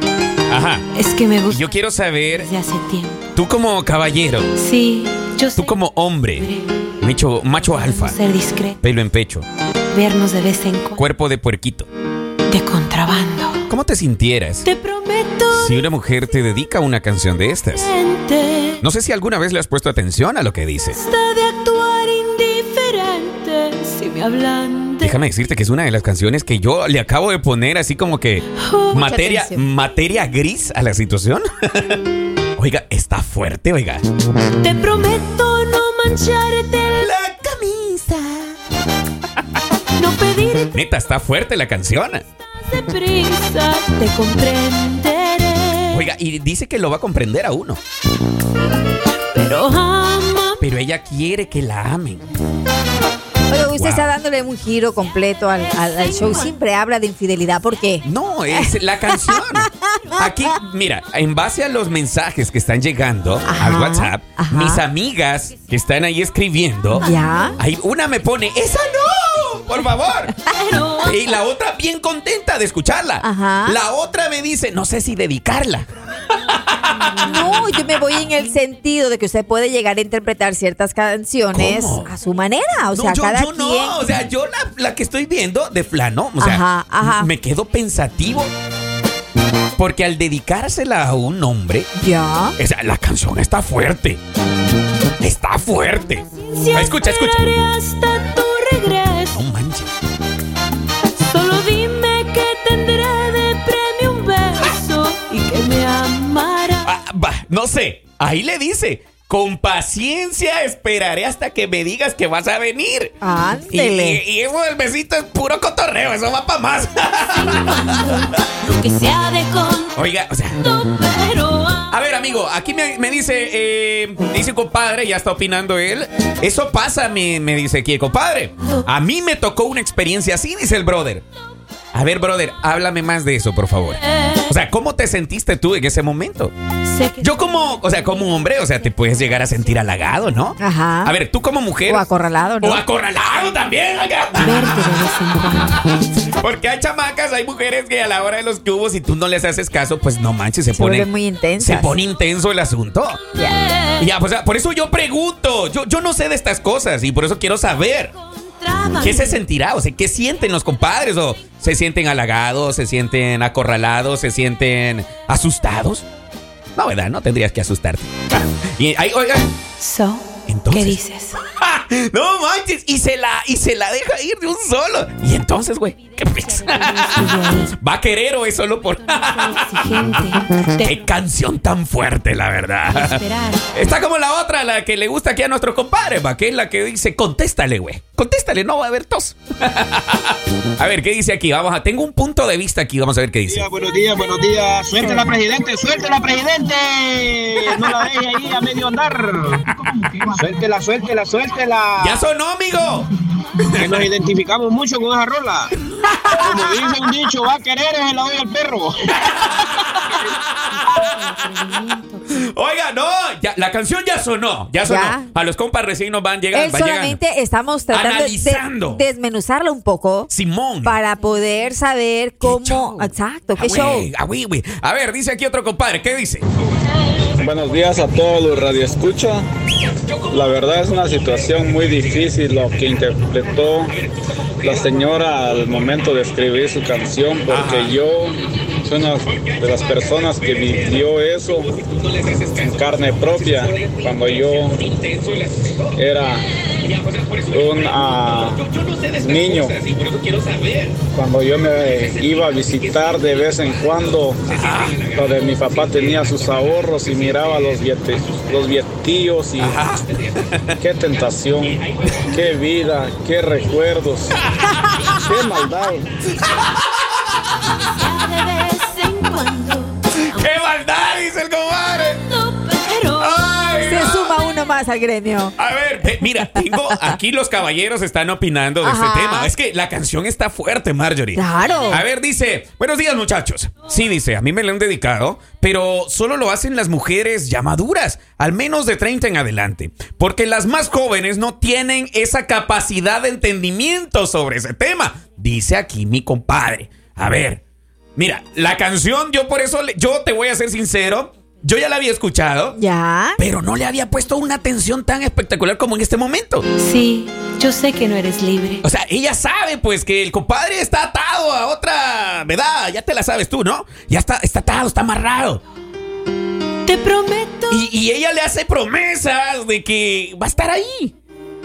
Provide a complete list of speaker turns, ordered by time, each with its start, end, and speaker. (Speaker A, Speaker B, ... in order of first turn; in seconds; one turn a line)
Speaker A: 0.5-0.9
Speaker B: 0.9-1.8
Speaker A: 1.5-2.5
Speaker B: 2.3-3.3
Speaker A: 3.4-4.5
Speaker B: 4.5-5.8
Speaker A: 5.6-6.5
Speaker B: 6.4-6.7
Speaker A: 7.0-8.2
Speaker B: 7.8-8.8
Speaker A: 8.8-9.5
Speaker B: 9.9-11.1
Speaker A: 11.0-11.9
Speaker B: 12.5-13.6
Speaker A: 13.7-14.7
Speaker B: 14.6-15.9
Speaker A: 15.5-17.9
Speaker B: 17.7-18.8
Speaker A: 18.8-21.0
Speaker B: 20.9-25.1
Speaker A: 25.0-32.0
Speaker B: 28.6-29.0
Speaker C: 29.0-29.6
Speaker A: 32.6-34.0
Speaker B: 34.6-37.1
Speaker A: 37.0-38.5
Speaker B: 40.0-40.8
Speaker A: 40.7-42.2
Speaker B: 42.6-46.0
Speaker A: 45.9-47.8
Speaker B: 49.4-50.6
Speaker A: 50.6-52.3
Speaker C: 53.5-60.2
Speaker A: 53.7-54.1
Speaker B: 55.7-56.5
Speaker A: 58.0-67.0
Speaker C: 63.5-64.8
Speaker C: 67.0-67.6
Speaker A: 67.6-70.5
Speaker B: 70.5-71.4
Speaker A: 71.0-77.2
Speaker C: 73.2-73.8
Speaker C: 77.2-84.0
Speaker B: 77.4-77.7
Speaker A: 81.5-82.1
Speaker A: 82.9-88.5
Speaker C: 86.4-87.3
Speaker A: 89.8-91.9
Speaker C: 92.0-92.6
Speaker A: 92.6-94.2
Speaker A: 95.2-97.5
Speaker B: 96.5-99.4
Speaker A: 99.3-99.9
Speaker B: 101.2-107.0
Speaker A: 106.8-113.2
Speaker C: 113.2-114.2
Speaker A: 113.7-118.4
Speaker B: 117.3-120.0
Speaker A: 120.0-120.6
Speaker B: 120.6-121.9
Speaker A: 121.9-131.2
Speaker A: 131.9-136.5
Speaker B: 136.9-140.0
Speaker A: 137.2-142.1
Speaker C: 140.6-141.2
Speaker C: 141.9-142.8
Speaker A: 142.6-151.1
Speaker B: 144.4-145.9
Speaker C: 150.7-151.9
Speaker A: 151.6-153.2
Speaker A: 154.0-158.1
Speaker B: 158.4-159.4
Speaker A: 159.0-166.1
Speaker A: 166.8-169.5
Speaker B: 169.8-171.4
Speaker A: 170.5-179.8
Speaker B: 176.6-177.8
Speaker B: 179.0-181.0
Speaker A: 180.8-183.2
Speaker B: 182.9-183.6
Speaker A: 183.7-193.7
Speaker D: 193.5-199.7
Speaker C: 195.0-195.3
Speaker A: 197.7-198.1
Speaker D: 200.2-202.2
Speaker A: 202.0-204.1
Speaker D: 203.8-205.7
Speaker C: 206.2-206.7
Speaker A: 206.2-207.1
Speaker D: 206.4-209.2
Speaker A: 209.2-210.6
Speaker B: 210.7-212.4
Speaker A: 212.3-217.2
Speaker C: 214.8-215.3
Speaker C: 216.5-220.3
Speaker A: 217.9-219.0
Speaker A: 220.3-221.0
Speaker C: 220.8-224.1
Speaker A: 222.4-226.5
Speaker E: 227.4-229.5
Speaker E: 230.3-233.9
Speaker E: 234.6-241.7
Speaker A: 237.5-238.0
Speaker A: 239.3-246.0
Speaker E: 242.6-244.8
Speaker E: 245.9-246.5
Speaker A: 246.8-251.1
Speaker E: 247.5-248.6
Speaker E: 249.2-249.8
Speaker E: 251.1-254.6
Speaker A: 251.9-258.6
Speaker E: 255.1-259.8
Speaker A: 259.6-260.8
Speaker E: 260.8-264.4
Speaker A: 261.6-262.5
Speaker A: 264.4-265.4
Speaker C: 264.8-265.1
Speaker E: 265.1-266.1
Speaker A: 266.3-267.1
Speaker B: 267.9-270.5
Speaker A: 270.1-272.2
Speaker B: 272.1-273.6
Speaker A: 273.2-274.4
Speaker C: 273.9-275.6
Speaker A: 275.6-297.6
Speaker C: 276.2-277.1
Speaker C: 278.8-279.5
Speaker C: 281.4-282.0
Speaker A: 298.2-302.8
Speaker C: 302.8-303.4
Speaker A: 303.4-306.7
Speaker B: 306.8-308.8
Speaker A: 308.8-315.6
Speaker B: 316.9-317.8
Speaker A: 317.7-321.1